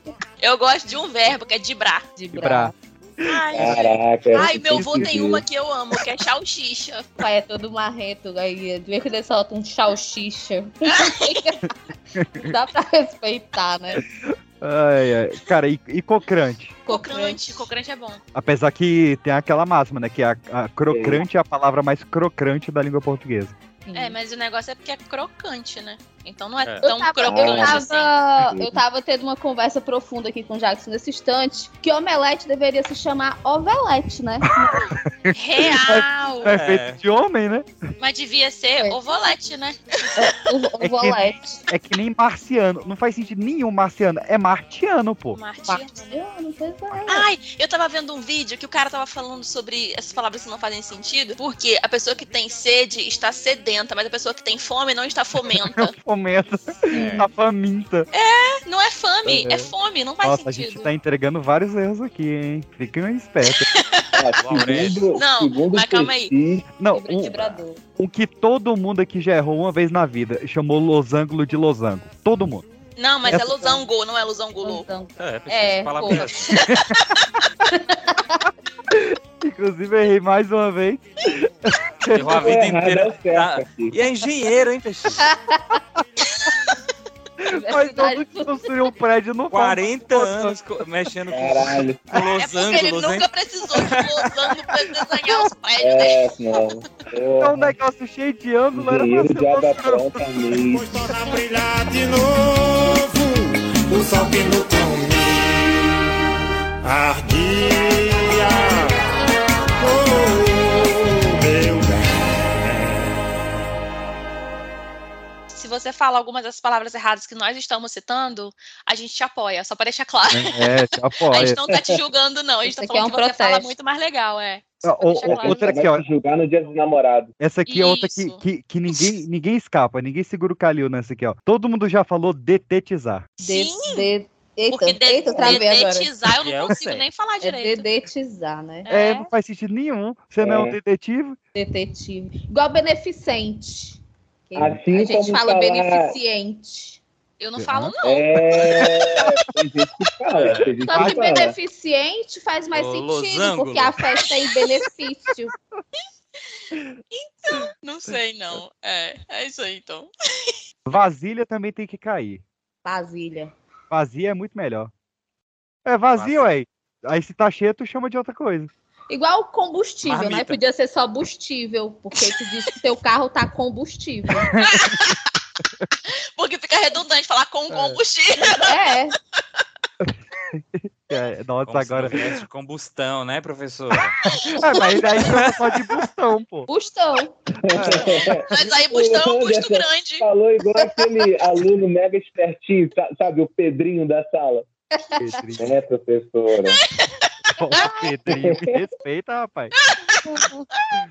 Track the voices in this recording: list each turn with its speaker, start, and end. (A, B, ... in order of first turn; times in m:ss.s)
0:00.4-0:02.1 A
0:02.2-0:02.7 B
0:02.3-0:02.7 C
0:03.2-0:03.8 C
0:03.2-0:07.1 A
0:03.5-0:05.4 D
0:04.5-0:05.1 C
0:07.2-0:11.7 B
0:11.0-0:11.4 A
0:12.2-0:12.5 C
0:12.4-0:14.0 B
0:14.2-0:16.8 C
0:16.9-0:17.7 B
0:16.9-0:18.2 A
0:18.4-0:23.6 C
0:20.9-0:21.2 D
0:23.9-0:24.2 B
0:23.9-0:28.1 A
0:26.8-0:34.9 B
0:27.2-0:27.8 D
0:28.4-0:28.8 D
0:35.0-0:37.7 C
0:35.3-0:36.6 A
0:36.4-0:37.0 E
0:38.0-0:40.4 A
0:40.2-0:41.4 B
0:40.8-0:45.4 C
0:45.3-0:46.2 A
0:45.7-0:47.3 B
0:47.1-0:55.9 A
0:55.6-0:58.1 C
0:56.9-0:57.2 B
0:56.9-0:57.3 E
0:58.1-1:00.9 A
0:59.3-1:03.7 C
1:03.5-1:04.2 A
1:04.1-1:06.7 D
1:04.4-1:05.1 E
1:05.1-1:06.3 A
1:06.8-1:12.7 C
1:06.9-1:07.8 B
1:13.0-1:14.9 A
1:13.3-1:13.5 C
1:13.4-1:13.8 B
1:14.6-1:16.6 B
1:15.2-1:16.6 E
1:16.6-1:17.0 C
1:17.7-1:18.4 B
1:18.9-1:22.6 C
1:22.1-1:25.3 E
1:22.3-1:24.0 D
1:25.2-1:25.8 B
1:26.3-1:26.8 A
1:27.4-1:30.6 C
1:27.5-1:28.6 B
1:29.5-1:34.6 E
1:31.3-1:32.0 D
1:32.4-1:36.3 A
1:35.8-1:37.8 D
1:37.4-1:40.4 C
1:38.7-1:41.0 D
1:40.5-1:46.0 F
1:46.8-1:49.2 F
1:49.8-1:53.4 F
1:55.5-2:05.8 A
2:00.3-2:01.6 C
2:01.7-2:02.0 D
2:02.6-2:03.7 B
2:04.8-2:06.0 C
2:05.3-2:07.3 D
2:07.4-2:13.3 C
2:07.7-2:09.2 A
2:13.4-2:14.1 A
2:13.4-2:16.1 B
2:14.7-2:17.9 A
2:15.3-2:15.6 D
2:16.4-2:17.1 E
2:17.4-2:18.9 B
2:18.9-2:19.2 A
2:18.9-2:21.4 C
2:20.4-2:20.8 D
2:21.6-2:27.0 B
2:24.6-2:26.1 D
2:27.4-2:28.6 A
2:27.6-2:28.0 C
2:28.0-2:31.6 D
2:28.5-2:29.2 C
2:30.4-2:30.7 E
2:30.8-2:35.5 B
2:30.9-2:31.2 C
2:32.7-2:34.0 E
2:37.1-2:40.5 A
2:40.9-2:42.4 C
2:42.8-2:43.5 B
2:43.9-2:44.9 C
2:45.9-2:48.7 C
2:46.1-2:46.5 E
2:49.1-2:54.5 B
2:50.0-2:50.6 E
2:54.5-2:55.2 C
2:54.5-2:55.3 A
2:56.4-2:58.8 A
2:57.7-2:58.0 C
2:58.6-2:59.2 B
3:00.0-3:02.4 C
3:01.7-3:04.2 E
3:04.2-3:06.7 C
3:05.3-3:05.5 E
3:06.7-3:08.3 B
3:07.6-3:14.7 D
3:07.7-3:08.3 C
3:08.5-3:10.3 A
3:15.0-3:15.3 B
3:15.2-3:15.7 C
3:15.6-3:16.8 D
3:16.9-3:17.3 A
3:17.6-3:19.8 C
3:18.3-3:18.8 D
3:20.3-3:20.6 B